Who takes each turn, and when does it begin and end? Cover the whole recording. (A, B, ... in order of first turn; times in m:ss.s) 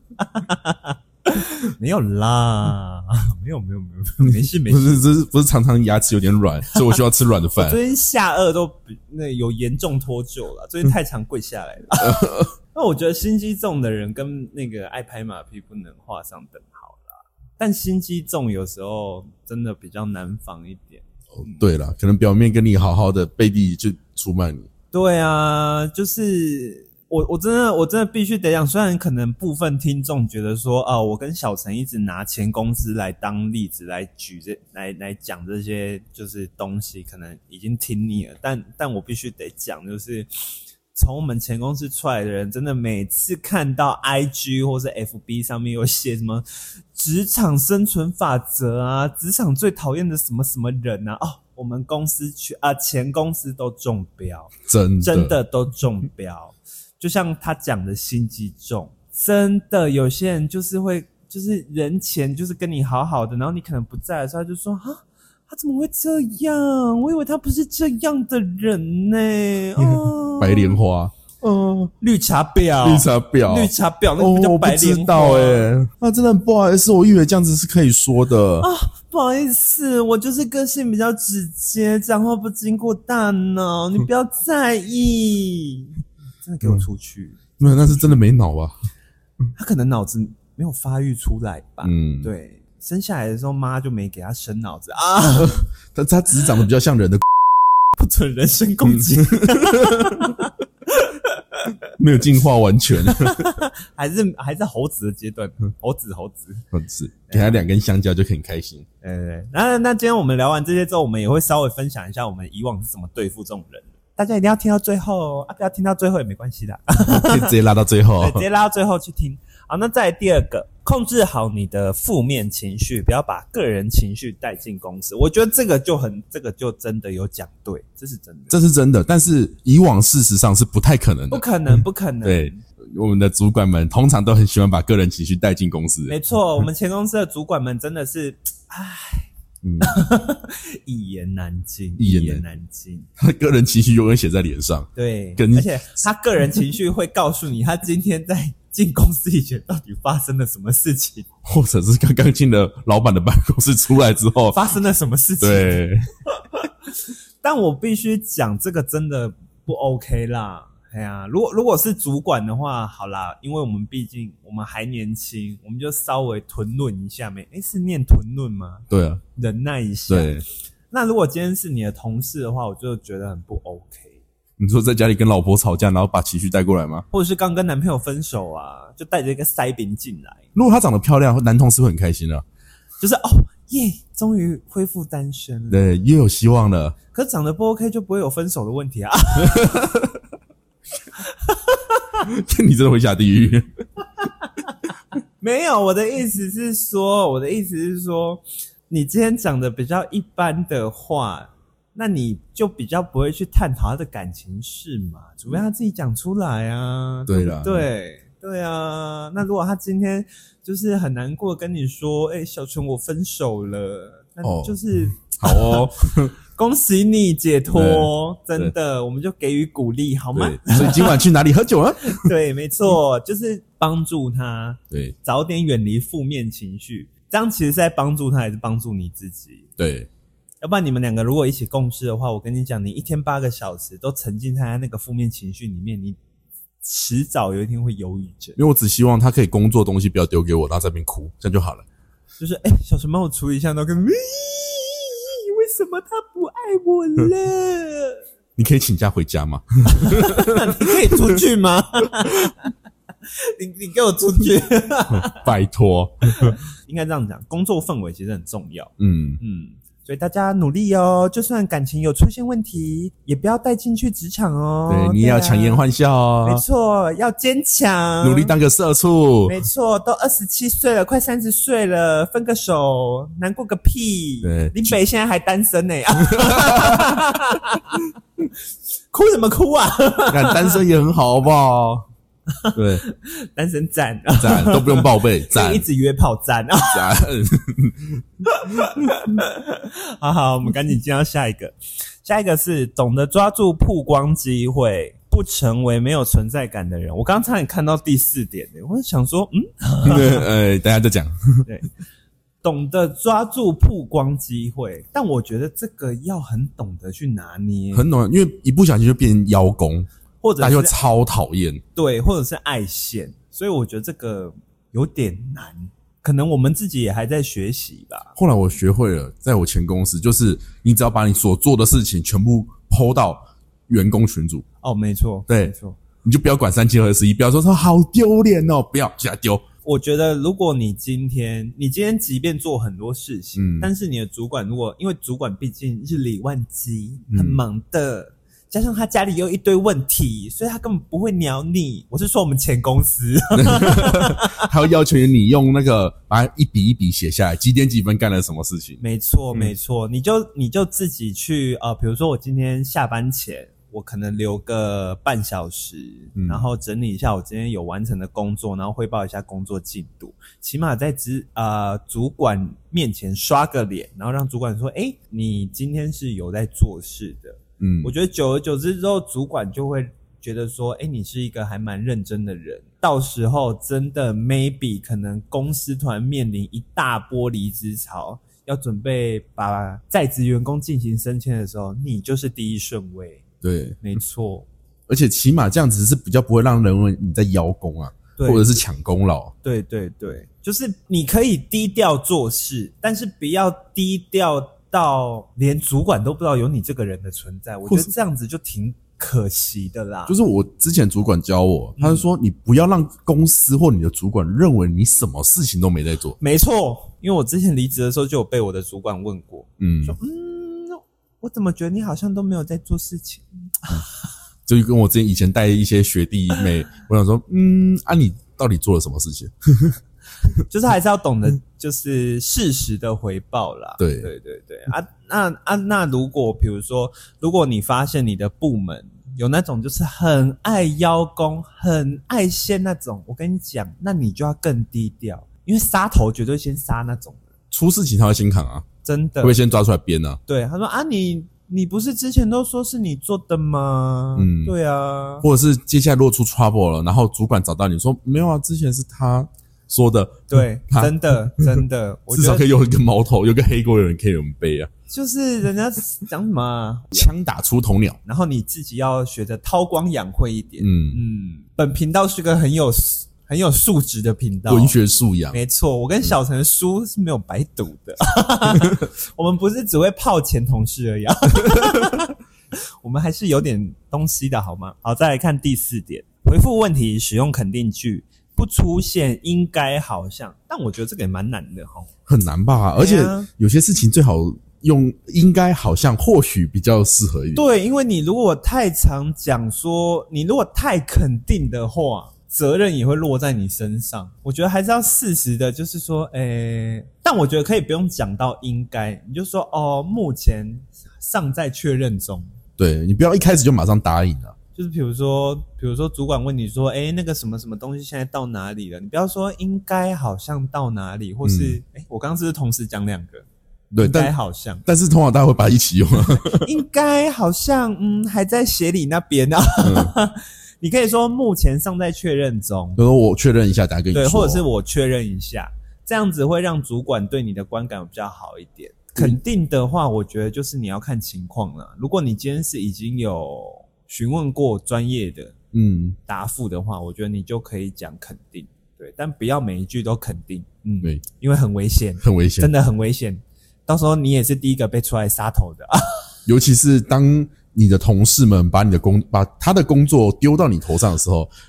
0:00.2-0:05.0 A
0:04.2-0:07.8 B
0:07.6-0:21.6 A
0:12.0-0:12.4 B
0:21.4-0:24.7 B
0:24.9-1:10.8 A
0:54.7-0:55.4 B
1:09.8-1:11.9 B
1:12.0-1:15.7 A
1:12.8-1:18.7 B
1:18.6-1:28.2 A
1:27.6-1:28.8 B
1:29.6-1:35.6 A
1:31.8-1:32.3 B
1:35.4-1:37.2 B
1:37.9-1:41.7 A
1:39.2-1:40.3 B
1:42.0-1:43.5 B
1:43.0-1:46.6 A
1:46.7-1:48.8 B
1:47.3-1:47.7 A
1:49.0-1:57.6 A
1:57.1-1:58.4 B
1:58.2-2:08.5 A
2:08.5-2:16.2 B
2:11.3-2:12.6 A
2:16.1-2:19.3 A
2:19.6-2:19.9 B
2:19.8-2:23.1 A
2:22.0-2:22.4 B
2:23.2-2:25.7 B
2:25.0-2:31.3 A
2:31.4-2:34.7 B
2:34.5-2:50.4 A
2:35.4-2:36.0 B
2:48.9-2:49.2 B
2:50.1-2:50.4 B
2:50.9-2:54.2 A
2:54.6-2:57.1 B
2:57.1-3:00.4 A
3:00.6-3:02.4 B
3:03.0-3:05.8 A
3:05.7-3:07.0 B
3:07.1-3:10.0 A
3:11.2-3:12.2 A
3:12.2-3:13.7 B
3:14.2-3:14.5 A
3:15.4-3:41.2 A
3:27.3-3:27.9 B
3:34.4-3:36.3 B
3:37.7-3:38.7 B
3:40.3-3:42.3 B
3:42.1-3:49.7 A
3:49.8-3:50.1 B
3:50.6-3:56.2 A
3:56.8-3:58.6 A
3:58.6-4:01.8 B
4:02.4-4:08.2 A
4:08.6-4:11.4 B
4:09.9-4:12.7 A
4:13.3-4:15.5 A
4:15.1-4:16.6 B
4:16.4-4:25.8 A
4:19.0-4:19.4 B
4:24.9-4:26.6 B
4:26.4-4:28.5 A
4:28.2-4:29.6 B
4:29.5-4:38.6 A
4:34.4-4:35.0 B
4:36.4-4:37.1 B
4:39.1-4:40.8 A
4:40.3-4:42.0 B
4:42.6-4:47.2 A
4:42.8-4:43.0 B
4:44.4-4:45.9 B
4:46.9-4:48.2 B
4:48.4-5:00.5 A
5:00.0-5:01.7 B
5:01.7-5:01.9 A
5:02.6-5:08.1 A
5:07.9-5:10.1 B
5:10.4-5:11.0 A
5:10.6-5:11.8 B
5:12.0-5:18.3 A
5:18.4-5:24.6 B
5:24.8-5:26.0 A
5:25.5-5:29.6 B
5:29.8-5:44.6 A
5:33.6-5:33.9 B
5:37.3-5:37.6 B
5:43.6-5:49.0 B
5:49.0-6:23.4 A
5:56.4-5:56.6 B
6:07.8-6:08.1 B
6:23.6-6:24.0 B
6:24.0-6:24.7 A
6:25.1-6:29.5 B
6:28.4-6:28.8 A
6:29.6-6:40.4 A
6:37.9-6:38.1 B
6:40.3-6:46.4 B
6:42.0-6:42.3 A
6:46.4-6:54.1 A
6:49.8-6:50.2 B
6:54.7-7:00.0 B
7:00.7-7:17.4 A
7:04.0-7:04.3 B
7:17.7-7:18.8 B
7:19.0-7:19.6 A
7:19.4-7:20.4 B
7:20.5-7:25.4 A
7:24.4-7:24.7 B
7:25.4-7:34.9 B
7:30.5-7:32.7 A
7:35.1-7:37.3 A
7:37.1-7:38.2 B
7:38.2-7:45.0 A
7:40.8-7:41.2 B
7:44.7-7:45.6 B
7:45.5-7:52.4 A
7:53.0-8:02.1 A
8:02.3-8:07.6 B
8:03.0-8:03.5 A
8:07.6-8:22.5 A
8:22.8-8:24.5 B
8:24.8-8:33.5 A
8:31.4-8:31.8 B
8:33.9-8:34.3 B
8:34.0-8:34.8 A
8:34.9-8:36.7 B
8:36.6-8:43.0 A
8:39.8-8:40.1 B
8:43.0-8:44.7 B
8:44.1-8:55.6 A
8:55.7-8:56.2 B
8:56.3-9:06.3 A
9:02.2-9:02.7 B
9:06.5-9:11.5 B